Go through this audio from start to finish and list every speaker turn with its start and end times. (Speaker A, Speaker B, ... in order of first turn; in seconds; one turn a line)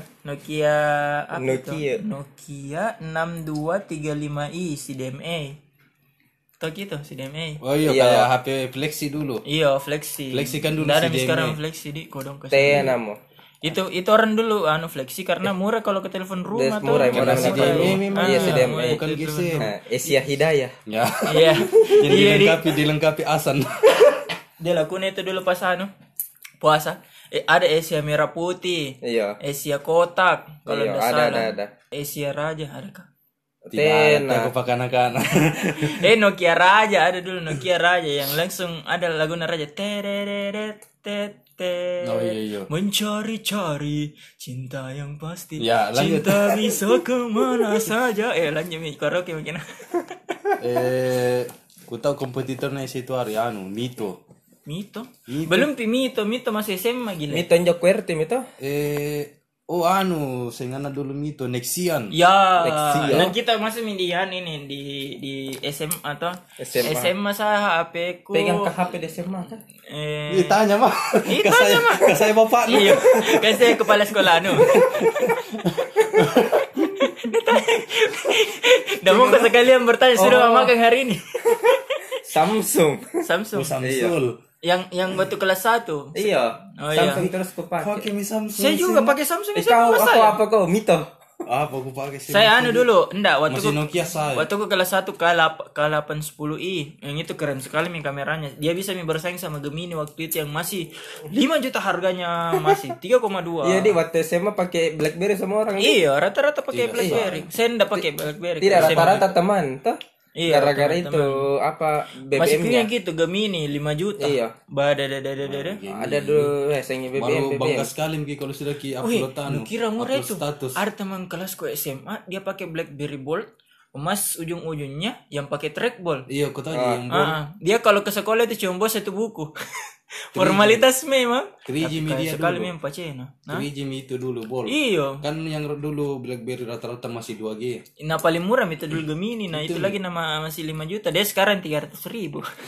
Speaker A: 0.2-5.6
Speaker B: 1.3-2.0
Speaker A: 6.6-7.6
Speaker C: 7.6-9.4
Speaker B: 7.8-8.3
Speaker A: 9.4-13.0
Speaker C: 10.3-11.6
Speaker B: 12.5-13.2
Speaker A: 13.6-20.2
Speaker B: 16.5-19.0
Speaker C: 17.1-19.7
Speaker B: 19.6-20.8
Speaker C: 20.9-24.2
Speaker A: 21.3-22.7
Speaker A: 24.6-25.9
Speaker A: 26.6-33.1
Speaker B: 29.0-29.4
Speaker B: 30.7-31.7
Speaker B: 33.6-34.5
Speaker C: 33.7-36.1
Speaker A: 35.8-50.4
Speaker C: 42.0-42.7
Speaker C: 45.6-47.9
Speaker C: 50.6-54.2
Speaker A: 54.7-57.5
Speaker C: 55.3-55.7
Speaker B: 57.3-58.5
Speaker C: 58.6-62.1
Speaker A: 62.1-68.7
Speaker B: 62.6-63.3
Speaker C: 63.1-63.3
Speaker B: 66.6-67.1
Speaker B: 68.3-69.6
Speaker A: 69.9-70.6
Speaker C: 70.3-76.9
Speaker A: 71.3-75.4
Speaker A: 76.0-82.2
Speaker C: 79.1-79.6
Speaker B: 80.2-80.7
Speaker B: 81.6-83.2
Speaker A: 83.2-83.7
Speaker C: 83.5-84.4
Speaker B: 83.8-84.2
Speaker A: 84.6-87.3
Speaker B: 86.2-88.1
Speaker C: 87.8-89.2
Speaker A: 88.6-90.4
Speaker B: 89.5-91.1
Speaker C: 91.5-92.9
Speaker A: 92.3-104.0
Speaker C: 93.5-94.5
Speaker B: 103.6-106.0
Speaker A: 105.8-109.2
Speaker C: 106.7-107.5
Speaker B: 107.0-107.3
Speaker B: 108.6-112.9
Speaker C: 108.7-109.3
Speaker A: 110.4-111.4
Speaker A: 112.3-115.8
Speaker B: 114.2-114.5
Speaker C: 115.4-116.5
Speaker B: 115.9-117.9
Speaker C: 117.2-120.8
Speaker A: 119.0-126.3
Speaker C: 126.3-127.4
Speaker B: 126.7-127.0
Speaker A: 127.1-133.7
Speaker C: 130.4-130.9
Speaker C: 131.7-132.7
Speaker C: 133.5-137.8
Speaker A: 134.7-135.2
Speaker A: 138.0-142.5
Speaker C: 139.5-140.0